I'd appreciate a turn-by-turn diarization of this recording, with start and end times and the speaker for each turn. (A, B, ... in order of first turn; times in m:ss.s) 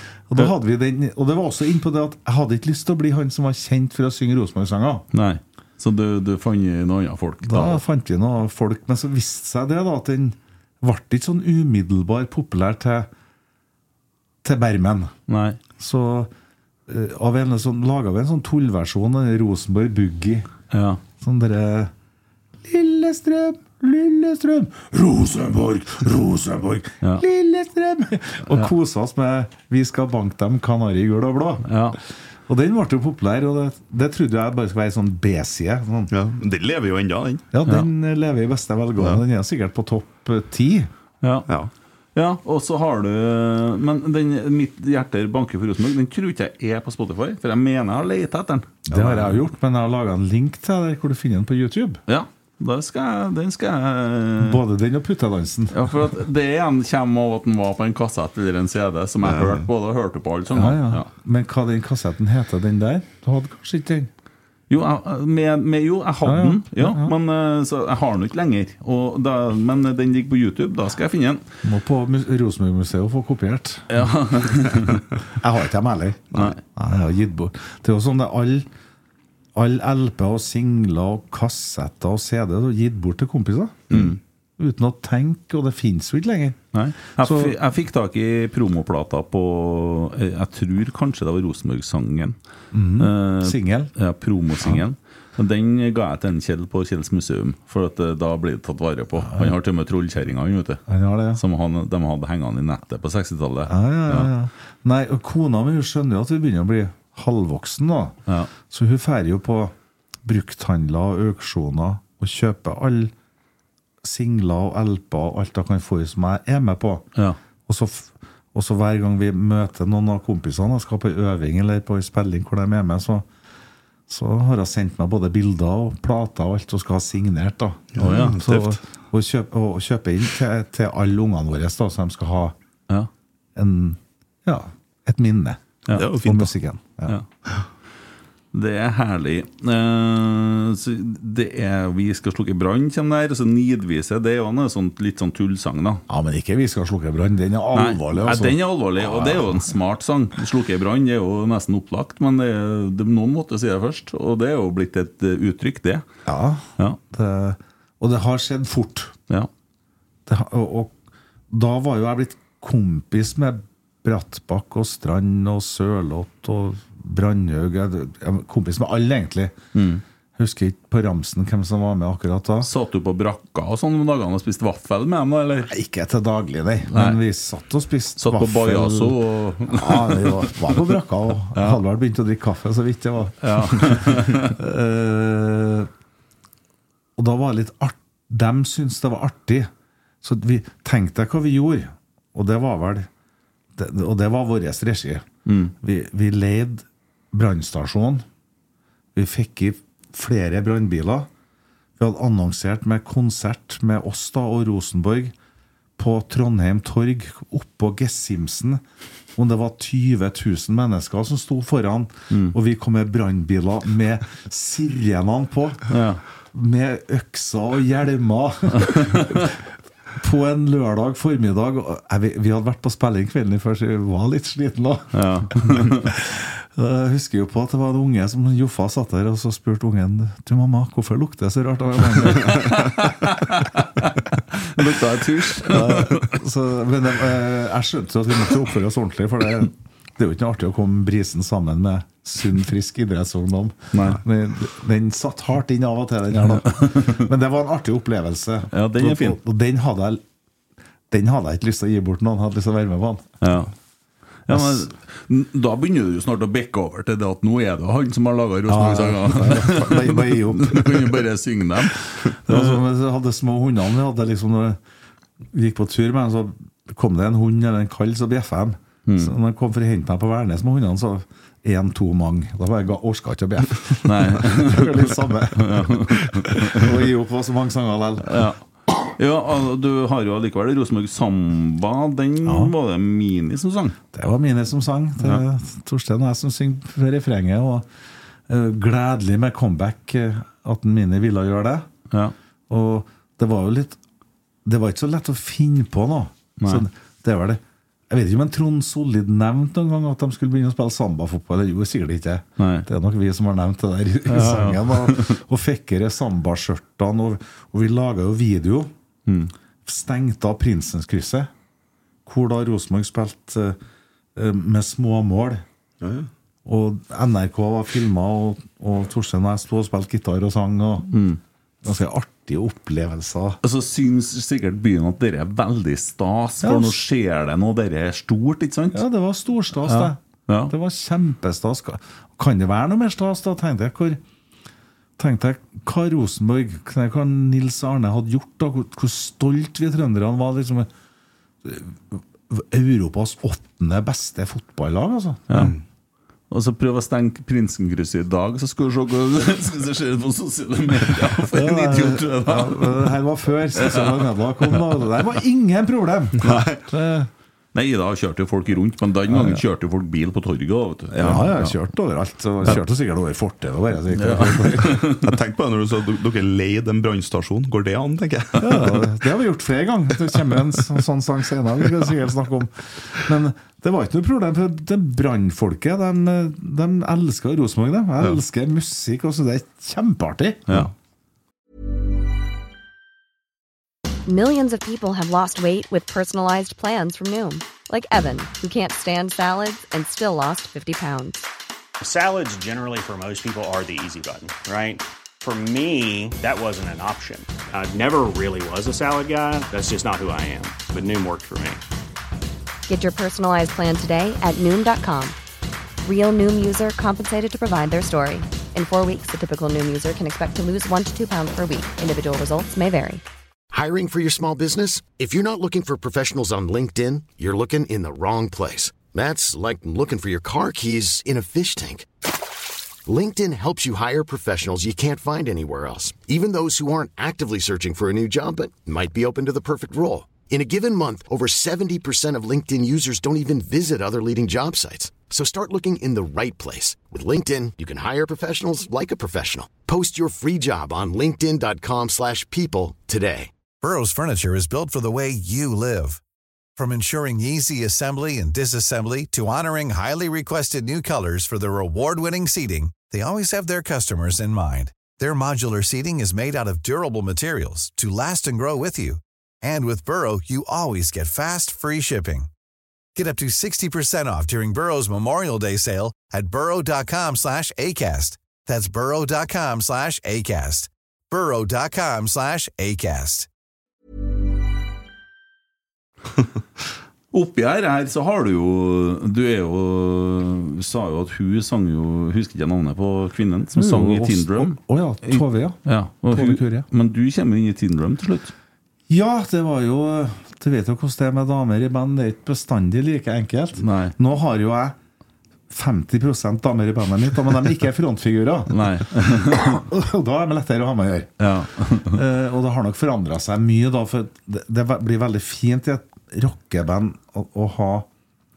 0:00.3-0:05.0 A
0:05.1-0:07.8 B
0:07.4-0:13.1 A
0:14.4-0:15.1 A
0:15.3-0:15.6 B
0:15.8-0:16.3 A
0:16.9-0:20.5 A
0:20.7-0:21.0 B
0:21.2-0:21.9 A
0:22.6-0:31.7 A
0:31.6-0:32.0 B
0:32.5-0:36.1 A
0:36.1-0:37.4 C
0:37.5-0:40.9 A
0:39.0-0:39.2 C
0:41.2-0:41.5 B
0:42.1-0:49.5 B
0:48.9-0:52.0 A
0:52.1-0:54.6 B
0:54.4-0:56.0 A
0:55.7-1:01.1 B
0:59.2-0:59.6 C
1:00.5-1:04.1 A
1:04.7-1:11.4 B
1:06.2-1:07.1 A
1:11.6-1:14.0 A
1:13.9-1:15.0 B
1:15.3-1:18.7 A
1:16.3-1:16.6 B
1:19.5-1:24.0 A
1:23.9-1:24.2 C
1:23.9-1:24.2 B
1:24.6-1:26.6 A
1:26.7-1:32.4 B
1:27.2-1:27.6 A
1:32.7-1:33.9 A
1:33.0-1:40.8 B
1:39.2-1:39.5 A
1:40.9-1:41.4 A
1:41.3-1:44.3 B
1:43.7-1:48.2 A
1:48.7-1:49.7 A
1:50.2-1:53.1 A
1:54.0-1:57.0 A
1:57.7-2:03.3 A
2:04.1-2:12.6 A
2:07.9-2:08.8 C
2:08.0-2:08.4 B
2:13.5-2:17.2 A
2:15.9-2:16.3 B
2:15.9-2:16.5 C
2:18.5-2:26.0 B
2:26.1-2:29.7 A
2:27.7-2:36.0 B
2:36.2-2:39.1 A
2:40.2-2:40.9 A
2:41.5-2:49.6 A
2:49.7-2:50.0 B
2:50.4-2:52.7 A
2:52.6-2:55.7 B
2:55.6-3:05.9 A
2:56.9-2:57.2 B
2:58.2-3:01.0 B
3:01.5-3:01.8 B
3:03.4-3:04.6 B
3:07.2-3:09.7 A
3:10.2-3:13.1 A
3:13.7-3:15.2 A
3:15.4-3:15.7 B
3:15.8-3:18.2 A
3:19.1-3:21.3 A
3:22.0-3:25.3 A
3:26.0-3:28.8 A
3:29.4-3:35.9 A
3:32.3-3:32.6 B
3:35.9-3:36.2 B
3:36.5-3:39.6 A
3:38.8-3:39.5 B
3:40.1-3:53.1 A
3:45.1-3:46.1 B
3:52.3-3:56.3 B
3:55.5-4:10.2 A
4:03.9-4:04.2 B
4:06.5-4:07.2 B
4:08.7-4:09.4 B
4:11.1-4:13.4 A
4:13.4-4:13.7 B
4:14.5-4:22.8 B
4:14.5-4:14.9 A
4:18.7-4:21.2 A
4:22.5-4:24.8 A
4:25.5-4:38.5 A
4:29.0-4:29.3 B
4:34.0-4:36.9 B
4:38.2-4:44.0 B
4:42.4-4:42.7 A
4:44.1-4:47.9 A
4:48.5-4:51.9 A
4:52.7-4:54.0 A
4:54.6-5:08.9 A
4:56.6-4:56.8 B
5:02.6-5:02.9 B
5:04.3-5:05.4 B
5:09.2-5:09.5 B
5:09.8-5:11.5 A
5:12.2-5:13.8 A
5:14.3-5:15.6 A
5:16.0-5:16.3 C
5:16.6-5:21.1 A
5:21.1-5:21.4 B
5:21.8-5:23.6 A
5:23.6-5:29.0 B
5:26.6-5:27.0 A
5:28.9-5:34.2 A
5:29.8-5:30.7 B
5:35.2-5:40.9 A
5:41.6-5:45.7 A
5:45.5-5:45.7 B
5:45.5-5:45.8 C
5:46.5-5:53.1 B
5:51.5-5:57.3 A
5:53.7-5:55.0 B
5:56.4-5:56.9 C
5:57.7-6:01.8 B
5:59.3-5:59.6 A
6:01.2-6:05.0 A
6:04.1-6:05.3 B
6:04.9-6:08.8 C
6:08.6-6:20.8 A
6:08.7-6:09.0 B
6:24.3-6:31.5 D
6:32.0-6:41.8 E
6:42.9-6:45.4 D
6:46.0-6:53.2 D
6:53.7-7:02.1 F
7:03.0-7:23.5 F
7:23.8-7:26.2 G
7:26.8-7:42.5 G
7:43.1-7:53.5 G
7:57.3-8:08.5 B
8:03.7-8:06.9 A
8:09.1-8:15.0 A
8:13.8-8:14.1 B
8:15.7-8:21.4 A
8:18.7-8:19.8 B
8:21.4-8:22.2 B
8:22.0-8:28.1 A